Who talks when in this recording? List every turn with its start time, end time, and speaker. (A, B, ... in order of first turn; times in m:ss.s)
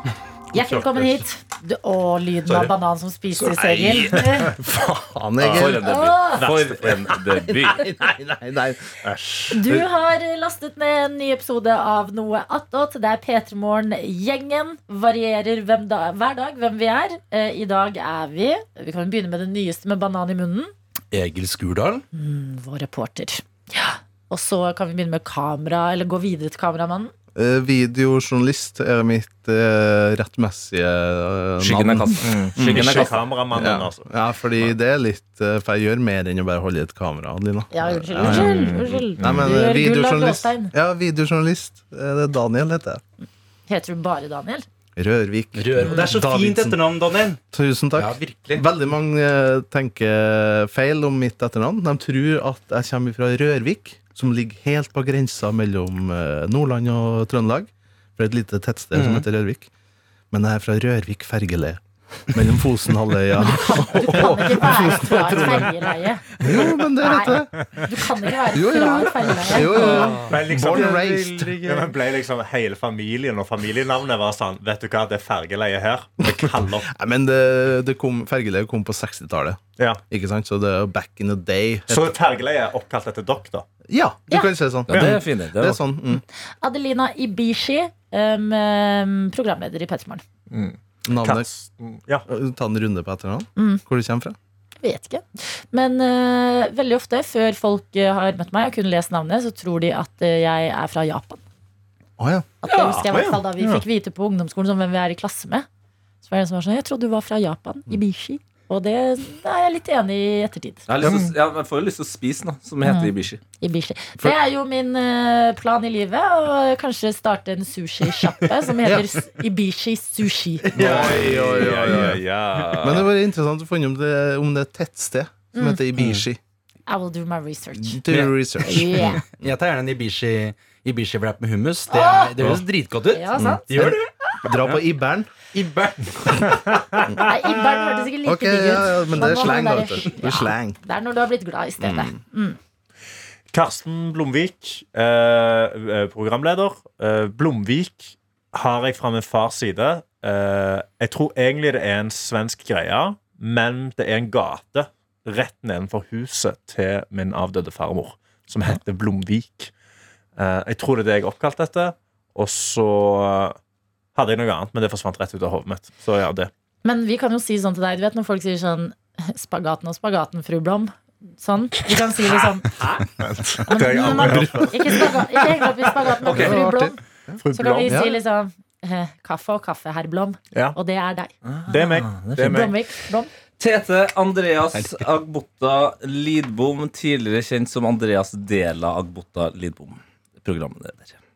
0:00.5-0:04.5 A
0:02.5-0:02.7 B
0:03.3-0:04.5 B
0:04.0-0:05.9 C
0:05.4-0:05.8 B
0:05.4-0:07.9 D
0:05.8-0:06.4 A
0:06.3-0:07.1 B
0:07.1-0:08.9 C
0:09.0-0:09.8 B
0:09.5-0:20.7 A
0:21.1-0:22.0 E
0:22.1-0:27.1 A
0:27.4-0:43.0 C
0:31.6-0:32.7 E
0:31.7-0:33.2 D
0:32.3-0:34.7 B
0:37.7-0:40.7 A
0:38.3-0:39.6 B
0:43.7-0:44.6 A
0:45.0-0:46.9 C
0:45.5-0:47.4 E
0:47.5-0:59.7 C
0:47.9-0:48.6 E
0:58.9-0:59.3 E
1:00.3-1:05.7 C
1:03.4-1:06.2 A
1:06.4-1:07.7 C
1:07.0-1:09.9 A
1:08.5-1:11.8 C
1:09.7-1:16.9 B
1:09.9-1:10.3 E
1:16.2-1:22.1 C
1:21.9-1:23.6 B
1:23.9-1:26.2 C
1:24.9-1:25.8 D
1:24.9-1:25.2 B
1:26.6-1:30.2 A
1:30.5-1:32.2 B
1:31.0-1:31.5 C
1:32.3-1:34.4 C
1:33.6-1:33.8 A
1:34.8-1:41.4 A
1:42.2-1:42.5 C
1:42.6-1:45.6 A
1:42.7-1:43.3 D
1:46.2-1:50.9 A
1:50.9-1:53.4 D
1:51.0-1:51.3 B
1:52.8-2:00.7 A
1:58.8-1:59.1 C
2:00.7-2:06.4 C
2:00.8-2:02.6 B
2:00.9-2:03.1 D
2:05.5-2:05.8 A
2:06.0-2:06.2 E
2:06.9-2:08.0 A
2:07.8-2:09.5 C
2:08.1-2:08.5 E
2:08.6-2:09.2 A
2:09.0-2:14.1 E
2:11.9-2:12.4 A
2:12.4-2:12.6 C
2:13.1-2:13.6 A
2:13.3-2:15.3 C
2:15.5-2:16.4 E
2:16.5-2:17.2 B
2:17.2-2:22.6 A
2:18.2-2:20.8 C
2:21.8-2:22.2 C
2:23.5-2:39.7 B
2:40.4-2:43.6 B
2:44.1-2:46.5 B
2:46.8-2:53.0 A
2:53.2-2:55.2 C
2:53.6-2:57.0 A
2:53.7-2:55.0 B
2:56.2-2:58.2 C
2:56.2-2:56.6 D
2:57.4-2:58.1 B
2:57.5-3:01.3 A
3:01.4-3:02.7 D
3:01.7-3:02.7 B
3:02.4-3:03.3 A
3:03.6-3:11.2 D
3:04.7-3:05.1 E